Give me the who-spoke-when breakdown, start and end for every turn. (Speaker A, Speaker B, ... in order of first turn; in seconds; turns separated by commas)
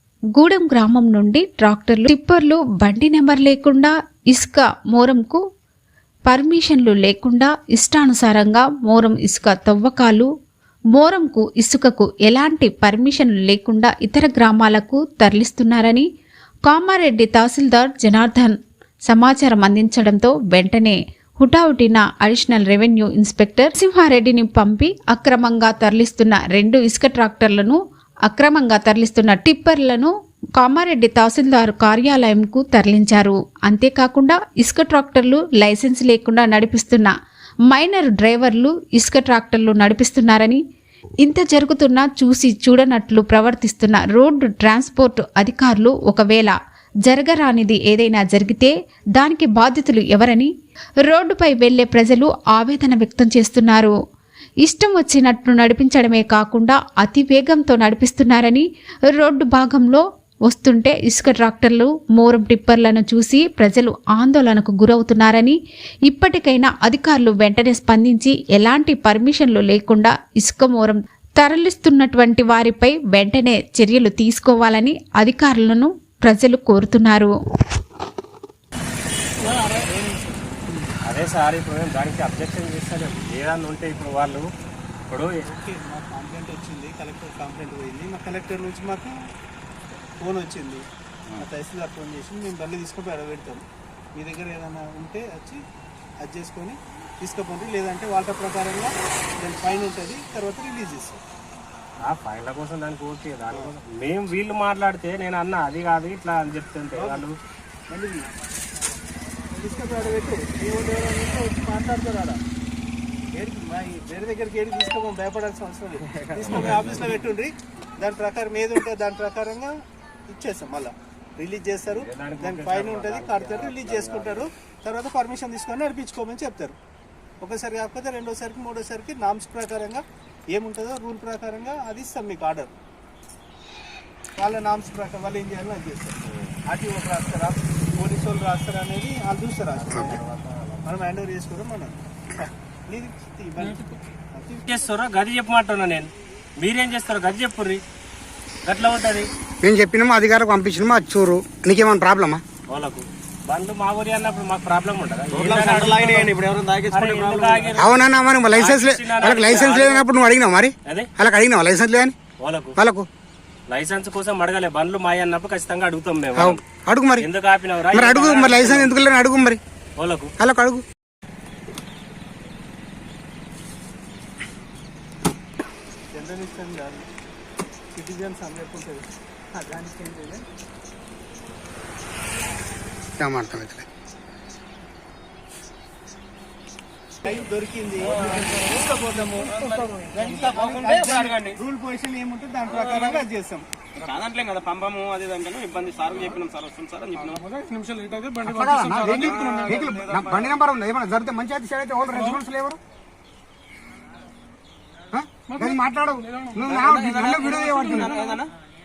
Speaker A: 0.3-5.4, Speaker A: 6.3-10.3, Speaker A: 10.9-16.1, Speaker A: 16.7-37.1, Speaker A: 37.7-40.6, Speaker A: 41.2-50.5, Speaker A: 51.1-53.9, Speaker A: 54.6-77.3, Speaker B: 79.5-80.8, Speaker C: 81.0-84.4, Speaker B: 85.5-89.1, Speaker B: 90.2-90.8, Speaker B: 91.4-95.6, Speaker B: 96.2-101.2, Speaker C: 102.0-107.3, Speaker B: 106.9-107.2, Speaker B: 107.9-108.3, Speaker B: 109.5-112.4, Speaker B: 113.3-119.7, Speaker C: 116.1-117.2, Speaker B: 120.3-126.8, Speaker C: 121.9-124.5, Speaker B: 127.4-132.7, Speaker B: 134.4-136.2, Speaker B: 136.7-140.2, Speaker C: 139.8-140.8, Speaker B: 140.8-144.7, Speaker C: 144.7-147.8, Speaker C: 148.7-149.3, Speaker D: 149.6-152.4, Speaker C: 152.7-156.3, Speaker E: 155.3-157.8, Speaker C: 156.9-157.9, Speaker D: 157.8-162.2, Speaker C: 158.5-160.1, Speaker C: 162.4-162.8, Speaker D: 162.8-163.1, Speaker C: 163.7-166.6, Speaker D: 166.3-167.3, Speaker C: 167.2-168.9, Speaker D: 167.9-169.6, Speaker C: 170.0-170.3, Speaker D: 170.4-170.8, Speaker B: 176.1-177.1, Speaker B: 177.9-180.4, Speaker D: 183.2-183.9, Speaker B: 187.2-193.7, Speaker E: 188.2-188.4, Speaker E: 189.6-191.6, Speaker E: 192.8-193.2, Speaker E: 193.9-198.3, Speaker D: 198.4-202.8, Speaker E: 199.0-200.6, Speaker D: 205.1-208.3, Speaker E: 206.6-208.5